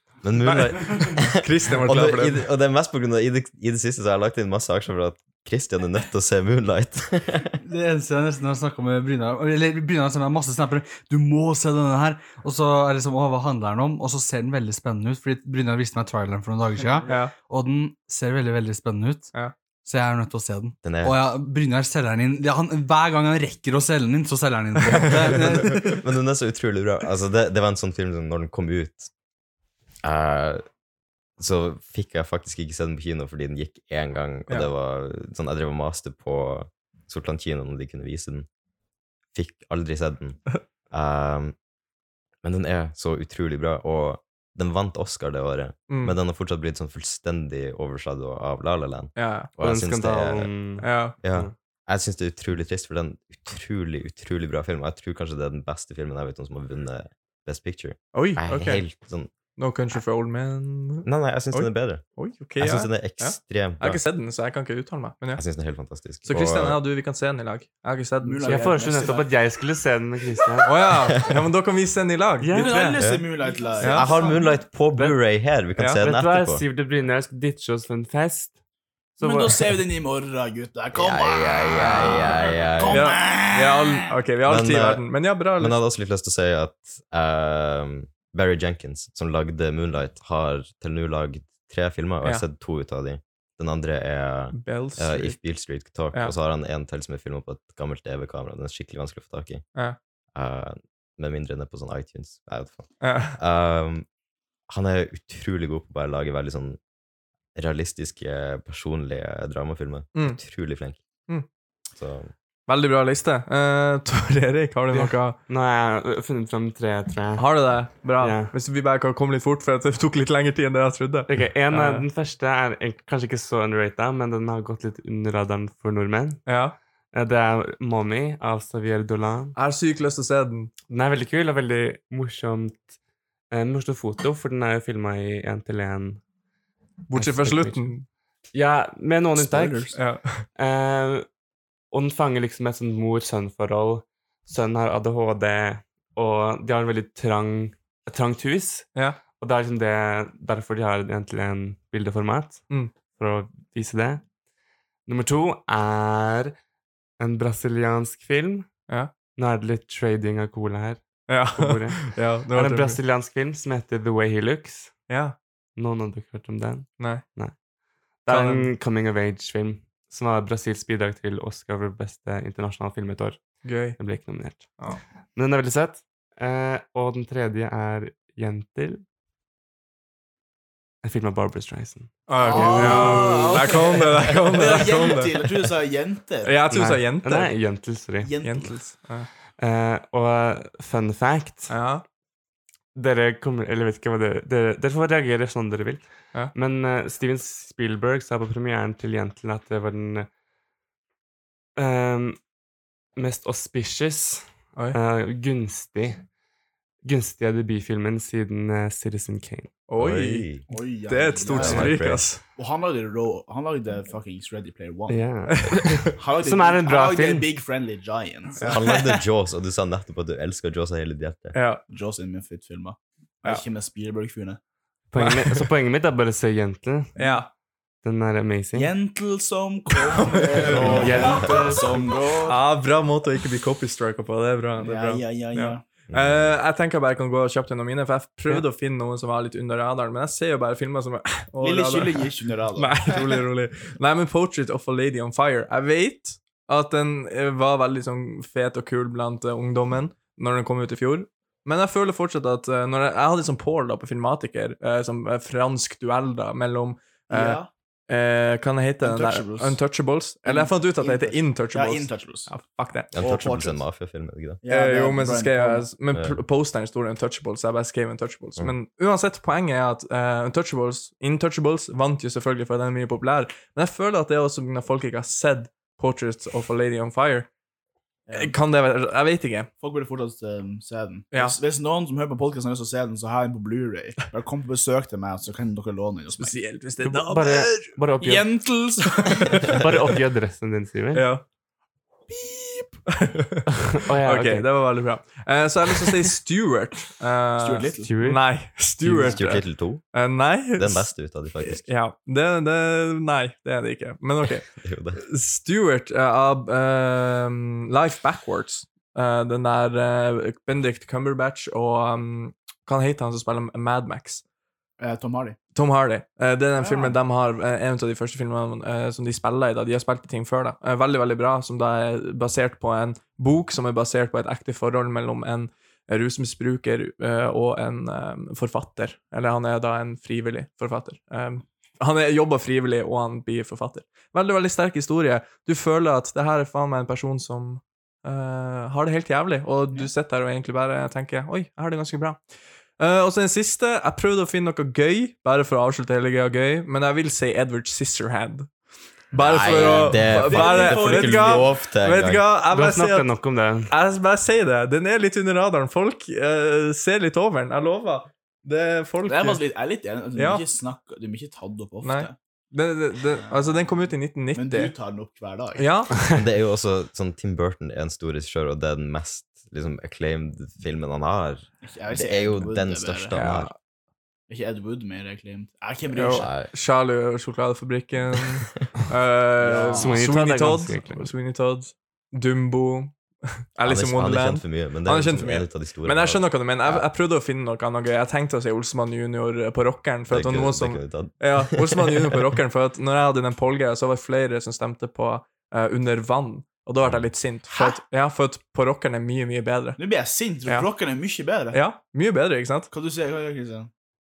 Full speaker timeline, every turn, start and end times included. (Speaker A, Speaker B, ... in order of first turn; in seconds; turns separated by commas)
Speaker A: 0.2-7.5, Speaker B: 0.4-2.5, Speaker C: 7.6-19.3, Speaker B: 17.1-17.3, Speaker C: 19.9-26.0, Speaker A: 20.8-21.2, Speaker B: 24.9-25.8, Speaker A: 25.3-29.1, Speaker A: 30.0-30.6, Speaker A: 31.4-38.5, Speaker A: 39.3-41.5, Speaker A: 42.4-50.5, Speaker B: 45.9-46.2, Speaker B: 49.2-49.5, Speaker D: 49.6-51.5, Speaker B: 50.8-51.2, Speaker A: 51.2-59.3, Speaker B: 58.1-58.9, Speaker B: 59.6-65.4, Speaker A: 61.0-62.0, Speaker A: 62.6-64.0, Speaker A: 65.3-66.8, Speaker B: 66.2-68.6, Speaker E: 68.2-69.3, Speaker D: 68.5-70.7, Speaker B: 70.7-73.0, Speaker D: 72.4-73.0, Speaker E: 72.5-74.4, Speaker A: 73.0-73.3, Speaker B: 73.8-74.1, Speaker A: 73.9-76.6, Speaker B: 75.8-76.0, Speaker D: 76.0-78.6, Speaker D: 79.2-79.7, Speaker E: 79.2-83.9, Speaker A: 80.9-83.2, Speaker B: 81.8-82.3, Speaker B: 82.9-85.8, Speaker A: 84.5-85.0, Speaker A: 85.6-99.7, Speaker B: 94.5-95.4, Speaker A: 100.3-104.1, Speaker B: 103.0-103.4, Speaker A: 104.7-106.8, Speaker A: 107.5-111.0, Speaker B: 110.2-110.4, Speaker A: 112.0-112.3, Speaker B: 112.7-115.4, Speaker D: 114.9-118.5, Speaker B: 117.4-122.1, Speaker D: 121.3-126.5, Speaker B: 126.5-126.8, Speaker D: 127.1-129.6, Speaker B: 129.6-130.7, Speaker D: 130.9-132.9, Speaker D: 133.5-136.2, Speaker B: 137.1-138.1, Speaker D: 137.1-137.9, Speaker D: 138.5-141.3, Speaker E: 139.4-140.0, Speaker B: 139.9-140.5, Speaker D: 141.9-154.3, Speaker D: 155.1-156.6, Speaker D: 157.2-158.7, Speaker D: 159.3-165.1, Speaker B: 161.3-163.0, Speaker B: 165.1-165.4, Speaker D: 165.8-167.6, Speaker B: 167.0-167.2, Speaker D: 168.2-179.0, Speaker B: 168.3-168.7, Speaker B: 173.6-174.0, Speaker B: 174.6-175.0, Speaker D: 181.0-184.1, Speaker B: 182.3-185.3, Speaker E: 182.4-186.6, Speaker B: 186.4-187.5, Speaker D: 186.7-188.3, Speaker E: 188.2-188.8, Speaker B: 188.4-189.3, Speaker D: 189.6-191.8, Speaker B: 191.7-192.0, Speaker D: 192.9-200.3, Speaker D: 201.8-202.4, Speaker D: 203.2-206.3, Speaker D: 207.0-209.7, Speaker B: 209.9-212.4, Speaker A: 210.0-210.7, Speaker E: 210.7-212.0, Speaker A: 211.6-212.3, Speaker E: 212.6-215.2, Speaker D: 215.1-217.5, Speaker B: 215.6-216.1, Speaker E: 216.1-219.0, Speaker B: 218.6-218.9, Speaker A: 218.7-221.6, Speaker B: 221.5-221.8, Speaker E: 221.9-224.6, Speaker D: 225.1-227.2, Speaker B: 225.2-225.7, Speaker B: 227.2-227.5, Speaker D: 228.0-228.9, Speaker E: 228.7-232.6, Speaker B: 230.1-231.4, Speaker D: 230.6-231.9, Speaker B: 232.5-242.2, Speaker E: 234.8-235.8, Speaker A: 236.1-236.5, Speaker E: 241.6-243.3, Speaker B: 242.8-263.1, Speaker E: 257.3-257.7, Speaker E: 259.0-259.8, Speaker E: 260.4-262.5, Speaker A: 263.1-264.6, Speaker E: 263.1-263.8, Speaker E: 264.6-265.9, Speaker B: 264.7-277.5, Speaker E: 278.3-278.6, Speaker B: 278.3-279.7, Speaker E: 279.8-286.6, Speaker B: 286.3-287.5, Speaker D: 287.0-288.6, Speaker E: 287.4-290.0, Speaker B: 289.2-289.8, Speaker D: 289.6-291.3, Speaker B: 291.1-291.4, Speaker E: 292.3-293.0, Speaker B: 293.1-314.4, Speaker D: 293.8-294.7, Speaker E: 297.6-298.1, Speaker D: 298.0-298.6, Speaker A: 299.1-300.0, Speaker A: 300.7-301.9, Speaker A: 304.8-305.2, Speaker E: 315.0-315.6, Speaker B: 315.8-342.4, Speaker E: 316.8-317.2, Speaker B: 343.0-348.7, Speaker B: 349.3-353.4, Speaker A: 349.4-352.4, Speaker E: 349.6-351.7, Speaker D: 352.7-353.9, Speaker B: 353.9-359.6, Speaker E: 359.3-362.3, Speaker B: 360.4-360.6, Speaker B: 362.0-364.9, Speaker E: 363.4-363.7, Speaker E: 364.6-365.9, Speaker B: 365.8-366.2, Speaker A: 366.3-373.7, Speaker E: 371.8-373.4, Speaker B: 373.3-373.8, Speaker E: 374.5-376.5, Speaker B: 376.1-383.2, Speaker A: 376.4-376.7, Speaker E: 379.6-380.1, Speaker D: 380.0-381.3, Speaker B: 383.8-400.0, Speaker A: 383.8-387.1, Speaker A: 390.3-392.2, Speaker E: 397.7-398.0, Speaker E: 400.0-401.8, Speaker B: 401.7-402.9, Speaker E: 402.9-403.9